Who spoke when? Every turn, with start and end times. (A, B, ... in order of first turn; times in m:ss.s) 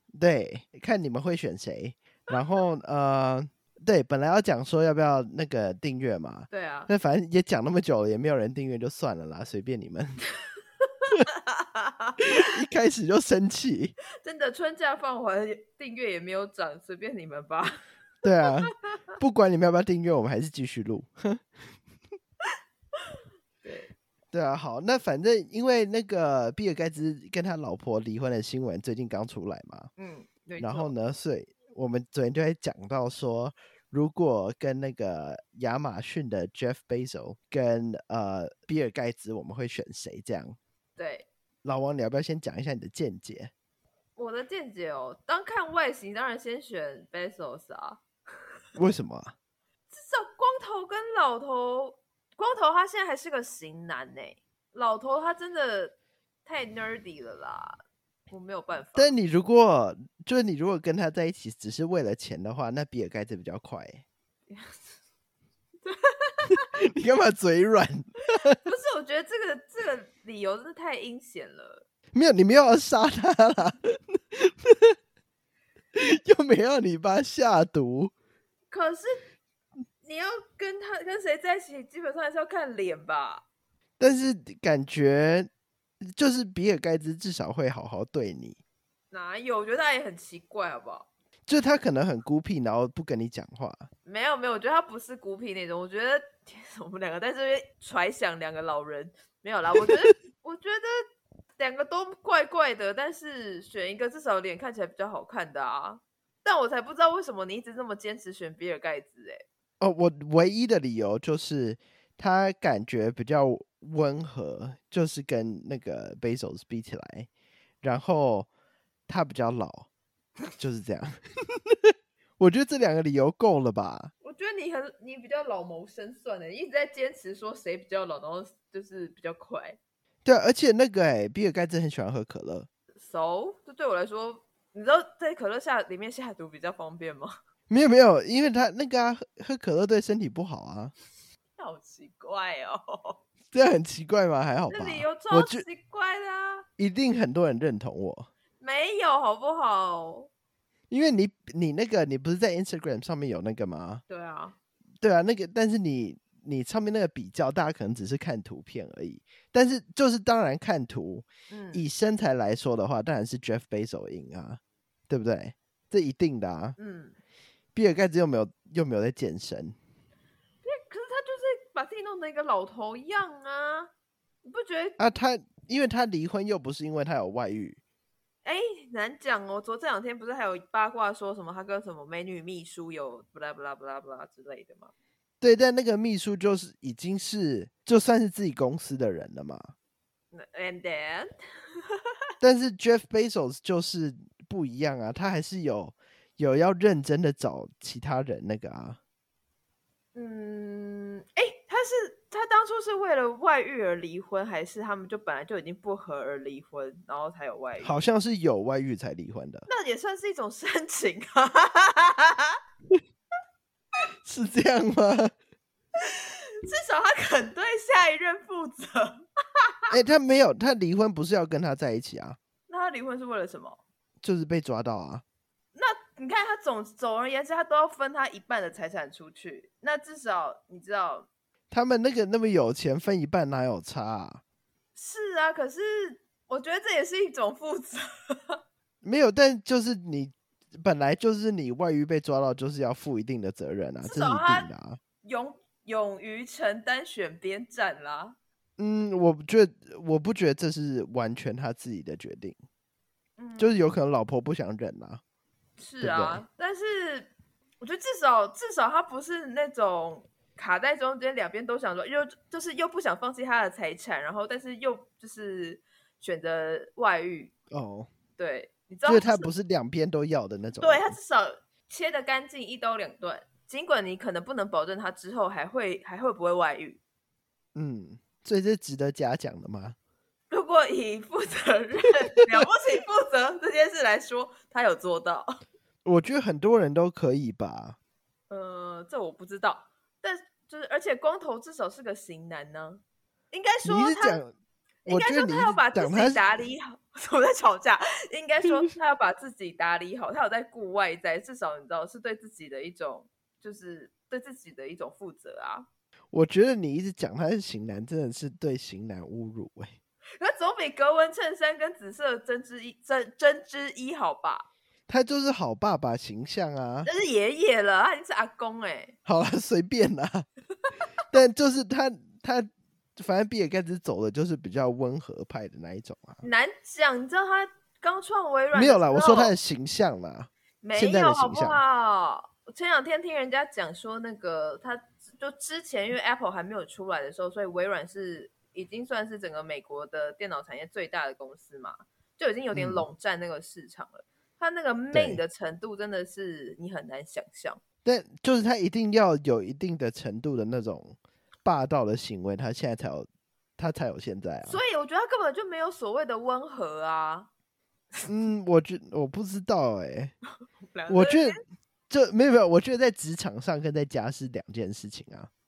0:00.1-0:10.2 A
0:06.5-0:06.9 B
0:10.8-0:12.4 B
0:12.4-0:14.0 A
0:14.2-0:17.8 B
0:18.2-0:21.5 A
0:18.4-0:18.9 B
0:23.1-0:23.9 B
0:24.3-0:29.9 A
0:30.0-0:30.9 B
0:30.6-0:40.6 A
0:41.0-0:41.3 B
0:41.6-0:43.5 A
0:44.2-0:48.0 B
0:48.8-0:49.4 A
0:49.9-0:55.9 B
0:56.4-0:57.8 B
0:58.3-0:59.1 B
0:59.0-1:04.0 A
1:04.5-1:04.8 B
1:05.8-1:06.7 B
1:06.5-1:08.6 A
1:08.4-1:11.8 B
1:12.1-1:15.0 A
1:15.9-1:18.1 A
1:18.7-1:19.1 B
1:20.0-1:23.4 B
1:24.0-1:25.5 A
1:26.1-1:28.6 A
1:29.1-1:31.1 B
1:31.5-1:33.9 A
1:34.1-1:41.0 B
1:41.6-1:49.4 B
1:49.8-1:57.3 A
1:57.8-1:58.5 A
1:59.1-1:59.9 A
2:00.6-2:04.1 A
2:04.2-2:09.8 B
2:10.2-2:12.7 A
2:13.0-2:17.3 B
2:17.7-2:20.9 A
2:21.6-2:23.2 B
2:23.5-2:25.6 A
2:24.7-2:26.7 B
2:26.8-2:28.3 A
2:28.6-2:30.3 B
2:30.9-2:34.0 A
2:34.1-2:34.6 B
2:35.0-2:46.8 A
2:41.5-2:41.9 B
2:46.8-2:47.2 B
2:47.8-2:49.8 A
2:50.6-2:53.9 B
2:54.4-2:55.0 B
2:55.0-2:57.8 A
2:58.4-3:04.9 B
3:05.4-3:09.7 A
3:10.3-3:11.3 B
3:12.4-3:19.0 A
3:20.2-3:28.0 B
3:27.8-3:29.7 A
3:29.7-3:32.6 B
3:34.2-3:35.3 A
3:36.0-3:39.2 B
3:39.9-3:42.4 A
3:42.7-3:43.8 B
3:44.2-3:45.2 A
3:45.8-3:51.3 B
3:51.7-3:54.4 A
3:55.0-3:58.6 B
3:59.0-4:05.0 A
4:04.0-4:04.7 B
4:05.2-4:08.4 B
4:08.8-4:12.6 A
4:13.4-4:13.8 B
4:13.6-4:15.2 A
4:15.8-4:27.5 B
4:16.0-4:16.4 A
4:27.7-4:28.1 A
4:28.4-4:29.5 B
4:29.0-4:31.1 A
4:30.8-4:37.0 B
4:37.8-4:40.0 A
4:40.5-4:45.5 B
4:46.0-4:48.0 A
4:48.5-4:54.4 B
4:53.8-4:54.5 A
4:55.1-4:56.4 A
4:55.1-5:05.9 B
5:06.3-5:10.0 A
5:10.4-5:14.6 B
5:15.1-5:17.1 A
5:17.0-5:19.2 B
5:19.3-5:20.5 A
5:21.3-5:26.4 A
5:26.4-5:29.6 B
5:28.7-5:31.8 A
5:30.8-5:47.8 B
5:42.7-5:43.1 A
5:45.1-5:45.4 A
5:48.0-5:53.3 A
5:53.8-5:54.8 A
5:54.6-5:57.5 B
5:58.3-6:00.3 A
6:00.9-6:01.6 B
6:01.1-6:01.6 A
6:02.1-6:05.5 A